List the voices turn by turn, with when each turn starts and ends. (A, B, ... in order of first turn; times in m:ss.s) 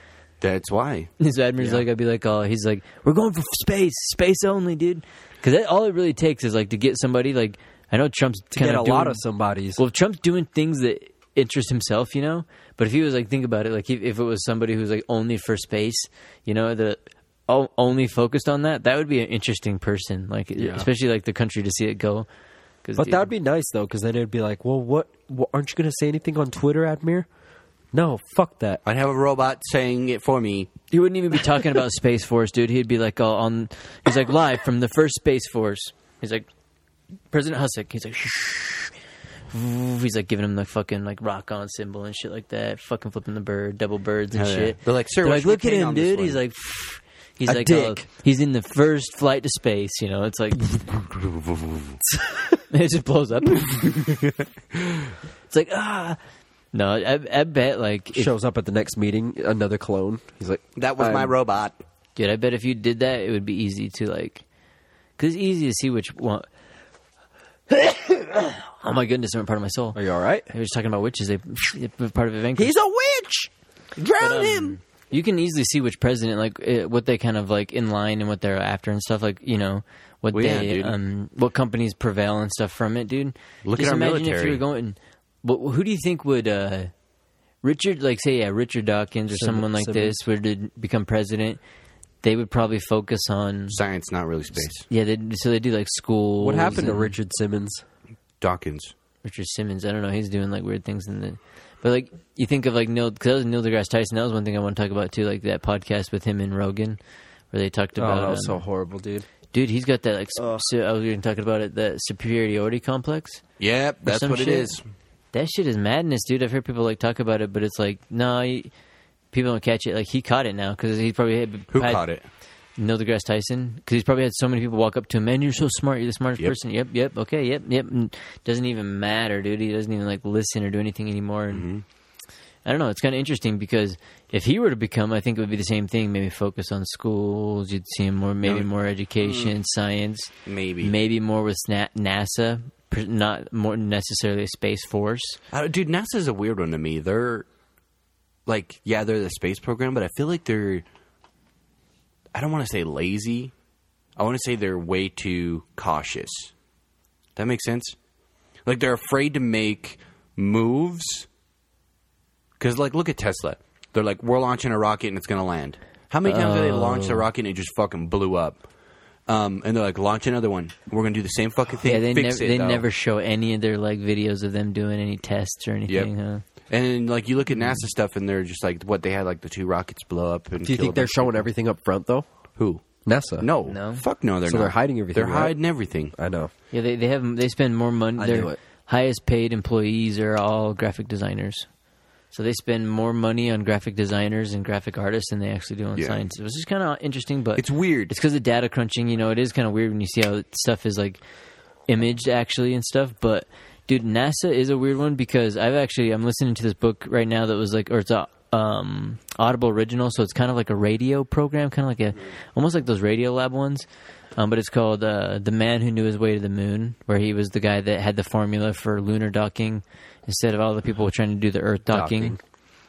0:00.4-0:01.1 A
0:01.2-0:09.2 B
0:01.6-0:01.8 C
0:08.5-0:09.8 C
0:09.8-0:22.3 B
0:20.6-0:20.9 C
0:22.8-0:23.3 B
0:23.0-0:27.3 C
0:27.9-0:28.8 C
0:28.8-0:30.7 A
0:30.9-0:36.5 B
0:37.3-0:39.0 B
0:39.5-0:50.9 B
0:44.3-0:46.4 A
0:47.5-0:48.0 C
0:51.1-0:51.9 A
0:52.7-0:54.3 B
0:55.5-0:56.2 B
0:56.7-0:58.3 B
0:58.2-1:01.4 C
1:00.8-1:01.8 A
1:02.2-1:04.4 B
1:05.2-1:06.5 B
1:07.7-1:12.8 B
1:10.0-1:10.5 C
1:12.6-1:13.5 C
1:14.0-1:14.7 A
1:14.2-1:26.9 B
1:20.3-1:21.0 A
1:23.6-1:24.6 A
1:27.6-1:31.6 B
1:29.3-1:30.2 C
1:32.2-1:33.8 B
1:33.7-1:34.9 A
1:34.9-1:37.1 B
1:36.4-1:37.8 C
1:38.4-1:38.9 A
1:39.2-1:47.0 B
1:47.5-1:48.6 B
1:48.0-1:49.3 C
1:49.5-1:53.4 B
1:53.6-1:54.8 A
1:54.0-1:54.7 B
1:55.3-1:58.7 B
1:59.3-2:02.0 B
2:01.7-2:02.3 A
2:02.8-2:11.7 B
2:11.5-2:11.8 A
2:12.6-2:20.3 B
2:19.2-2:19.5 A
2:20.4-2:20.9 A
2:20.8-2:25.4 B
2:25.5-2:27.4 A
2:28.5-2:30.8 A
2:32.3-2:33.5 A
2:34.2-2:36.5 A
2:37.4-2:38.0 A
2:38.7-2:41.3 A
2:42.6-2:48.6 A
2:46.2-2:47.3 B
2:49.3-2:52.9 A
2:51.8-2:56.4 B
2:56.7-3:01.5 A
3:00.6-3:02.3 C
3:02.6-3:06.1 A
3:03.0-3:03.5 C
3:03.7-3:04.0 B
3:04.4-3:05.6 C
3:06.1-3:06.5 C
3:06.7-3:11.7 B
3:08.2-3:08.6 C
3:12.3-3:21.2 B
3:17.6-3:18.1 A
3:21.9-3:42.4 B
3:41.9-3:42.4 C